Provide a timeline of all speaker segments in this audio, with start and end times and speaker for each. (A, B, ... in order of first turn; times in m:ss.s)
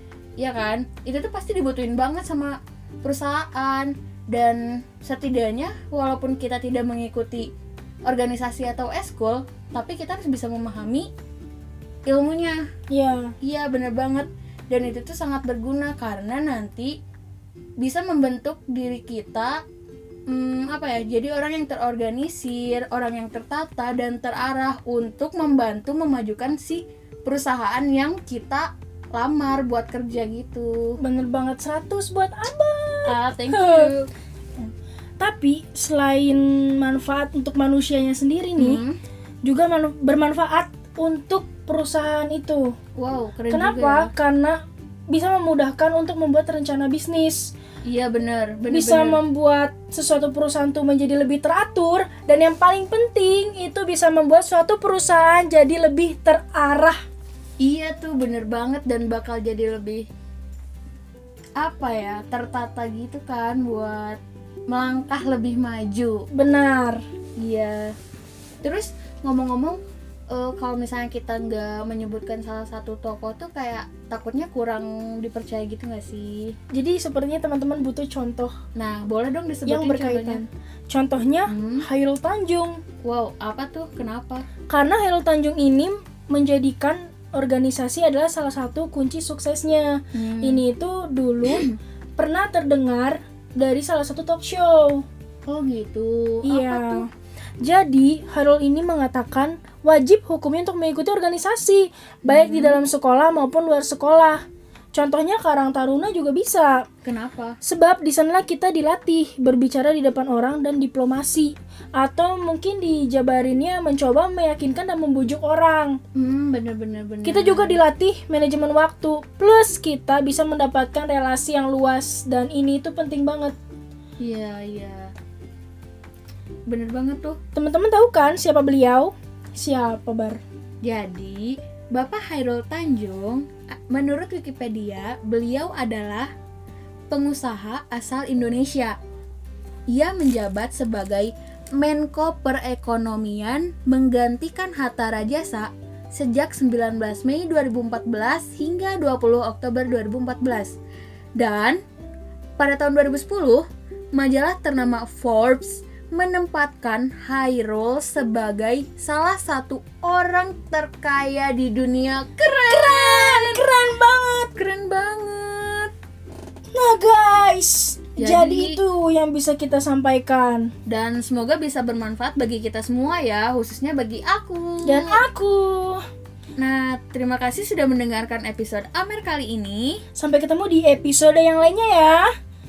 0:00.4-0:07.5 A
0:08.1-0:11.1 A
0:12.1-0:12.6 A
0:12.9-0:13.3 B
0:13.4-0:16.9 A
0:17.8-0:19.6 A
0:20.3-0:31.0 A
0:31.0-0:33.9 B
0:33.0-0:34.1 A
0:34.6-0:38.8 B
0:38.6-0:39.0 A
0:39.4-0:42.7 B
0:43.0-0:44.1 A
0:43.5-0:47.5 B
0:47.8-0:49.2 A
0:48.7-0:57.0 B
0:57.6-1:00.1 A
1:01.6-1:04.2 A
1:04.7-1:06.3 A
1:06.3-1:07.0 B
1:07.4-1:07.9 A
1:08.6-1:16.6 A
1:16.7-1:18.5 B
1:18.8-1:20.4 A
1:19.7-1:22.8 B
1:21.5-1:21.8 A
1:23.0-1:24.5 A
1:24.7-1:35.0 B
1:30.1-1:30.6 A
1:31.4-1:31.8 A
1:35.4-1:37.0 A
1:36.4-1:37.0 B
1:37.6-1:46.8 B
1:42.2-1:42.8 A
1:47.0-1:47.6 A
1:47.6-1:56.0 B
1:56.1-1:57.8 A
1:57.2-2:03.5 B
2:04.2-2:05.1 A
2:06.7-2:07.4 A
2:07.5-2:10.4 B
2:10.8-2:16.3 A
2:17.1-2:19.0 A
2:19.9-2:30.8 A
2:31.4-2:31.8 A
2:32.6-2:43.6 A
2:42.7-2:44.5 B
2:44.5-2:45.9 A
2:46.7-2:50.7 B
2:48.2-2:48.8 A
2:50.9-2:55.2 A
2:54.8-2:56.0 B
2:56.6-3:00.0 A
3:00.2-3:02.3 B